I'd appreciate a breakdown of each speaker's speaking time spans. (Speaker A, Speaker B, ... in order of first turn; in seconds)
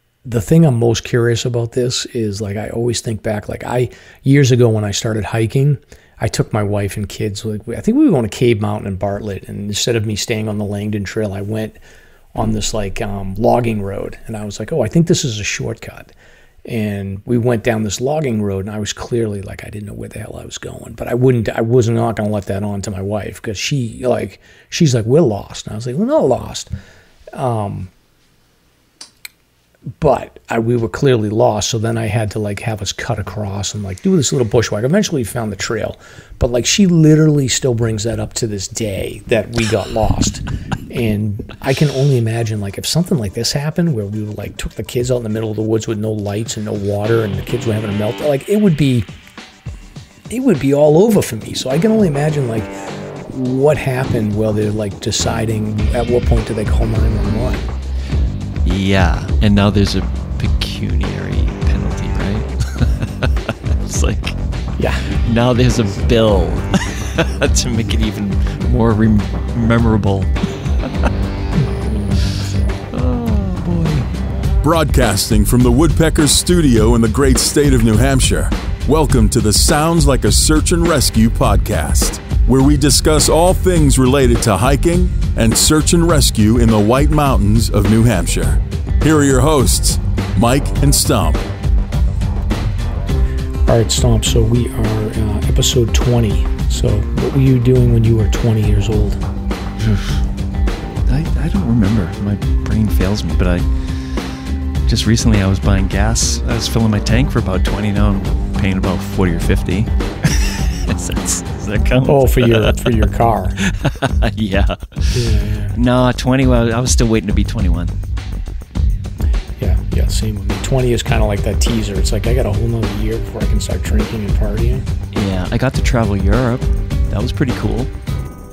Speaker A: 0.2-11.8, 12.3-16.1, 16.6-26.7, 27.3-27.9, 30.0-49.1, 50.3-52.7, 53.3-57.7, 64.8-65.2, 71.5-72.8, 93.7-99.2, 112.0-113.6, 115.1-115.8, 119.6-124.9
Speaker B: 58.6-64.4, 65.1-71.1, 72.9-74.1, 99.8-100.2, 101.0-104.3, 104.8-112.9, 113.6-117.9, 125.1-127.9
Speaker C: 74.6-91.4